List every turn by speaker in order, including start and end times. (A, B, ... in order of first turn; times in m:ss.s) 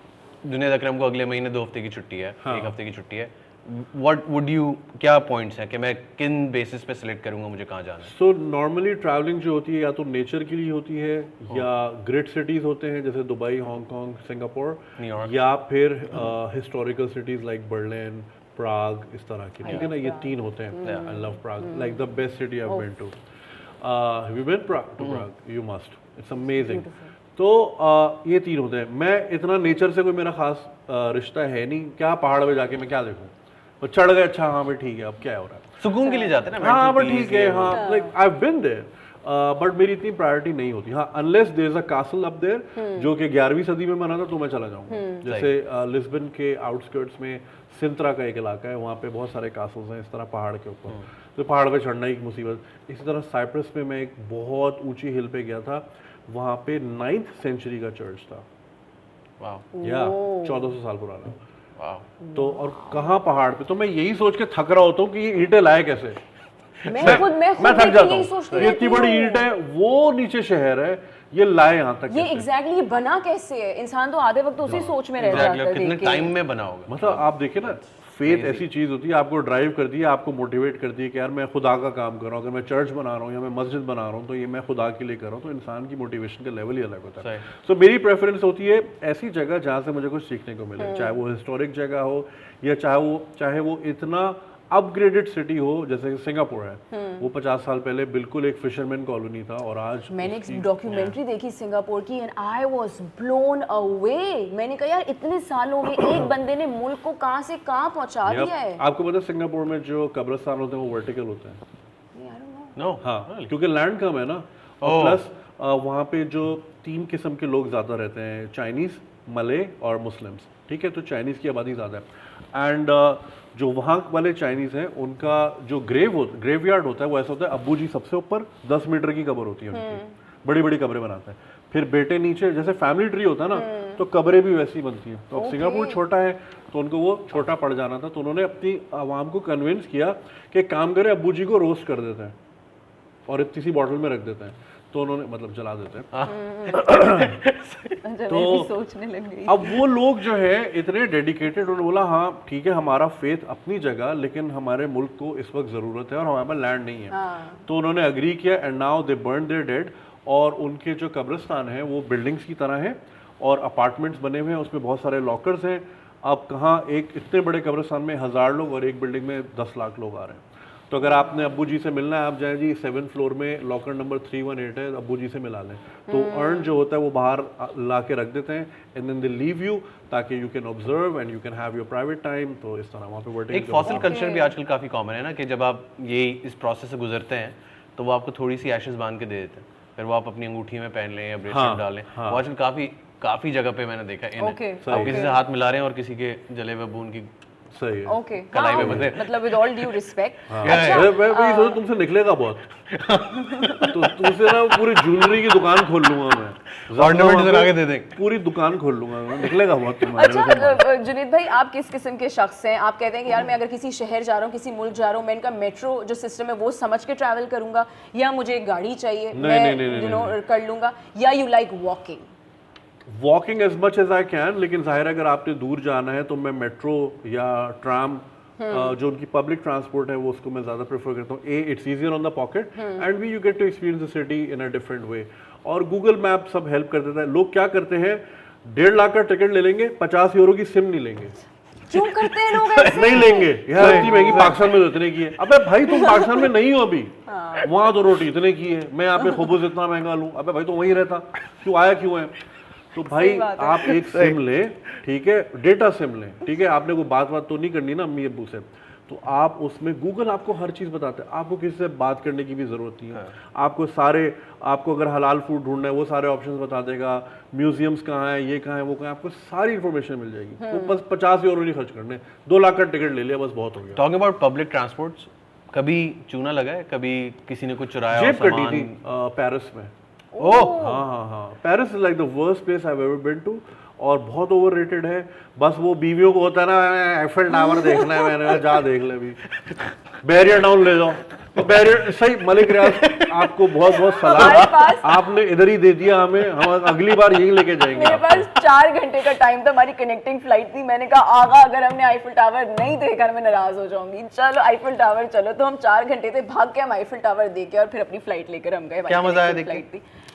0:00.4-0:08.1 A
0:02.4-0:02.8 B
0:08.0-0:23.2 B
0:15.0-0:15.4 A
0:19.6-0:22.0 C
0:20.8-0:21.1 A
0:23.8-0:35.8 B
0:26.5-0:27.1 C
0:35.8-0:37.8 A
0:36.0-0:36.3 C
0:36.6-0:58.4 B
0:37.7-0:38.1 C
0:42.8-0:43.1 C
0:44.9-0:45.2 C
0:59.4-0:59.7 A
0:59.7-1:00.7 C
0:59.8-1:01.4 B
1:01.8-1:02.1 A
1:02.2-1:02.9 C
1:02.3-1:06.2 B
1:06.8-1:07.3 A
1:06.9-1:09.5 C
1:07.0-1:12.5 B
1:12.1-1:16.4 C
1:14.7-1:15.5 B
1:14.7-1:18.6 A
1:16.9-1:40.7 B
1:27.2-1:27.5 A
1:30.8-1:31.2 C
1:36.9-1:37.3 C
1:40.1-1:48.8 C
1:40.9-1:41.1 A
1:48.3-1:51.6 B
1:52.2-1:52.8 C
1:52.8-1:53.5 A
1:53.0-2:22.4 B
1:54.8-1:55.2 A
2:09.7-2:10.1 C
2:13.5-2:14.0 C
2:15.4-2:16.0 C
2:23.3-2:27.4 B
2:26.1-2:28.0 A
2:26.2-2:26.9 C
2:28.0-2:29.8 C
2:28.3-2:28.7 B
2:29.5-3:04.2 B
2:37.1-2:37.6 C
2:56.1-2:56.8 C
3:03.5-3:17.3 A
3:03.9-3:04.5 C
3:11.5-3:12.4 B
3:14.4-3:15.4 C
3:14.8-3:15.3 B
3:17.7-3:18.2 B
3:18.1-3:21.8 C
3:18.5-3:19.9 A
3:18.7-3:19.2 B
3:20.5-3:22.7 B
3:20.6-3:21.2 A
3:22.9-3:25.5 A
3:23.5-3:23.8 C
3:23.9-3:30.8 B
3:26.9-3:28.2 A
3:30.1-3:42.3 C
3:39.3-3:40.4 B
3:43.1-4:01.4 B
3:48.6-3:49.0 C
3:52.8-3:53.1 C
4:01.9-4:03.6 C
4:01.9-4:04.7 A
4:02.9-4:12.3 B
4:05.9-4:06.3 C
4:07.3-4:07.8 C
4:12.9-4:34.0 B
4:13.1-4:14.0 C
4:13.9-4:14.4 A
4:30.6-4:31.0 C
4:33.9-4:39.0 A
4:38.1-4:39.9 B
4:40.4-4:41.0 C
4:40.4-4:40.9 A
4:40.7-4:49.4 B
4:47.7-4:48.2 C
4:50.2-4:58.4 B
4:52.8-4:53.4 A
4:54.2-4:55.2 C
4:54.3-4:54.6 A
4:57.9-5:10.0 C
5:09.1-5:09.8 A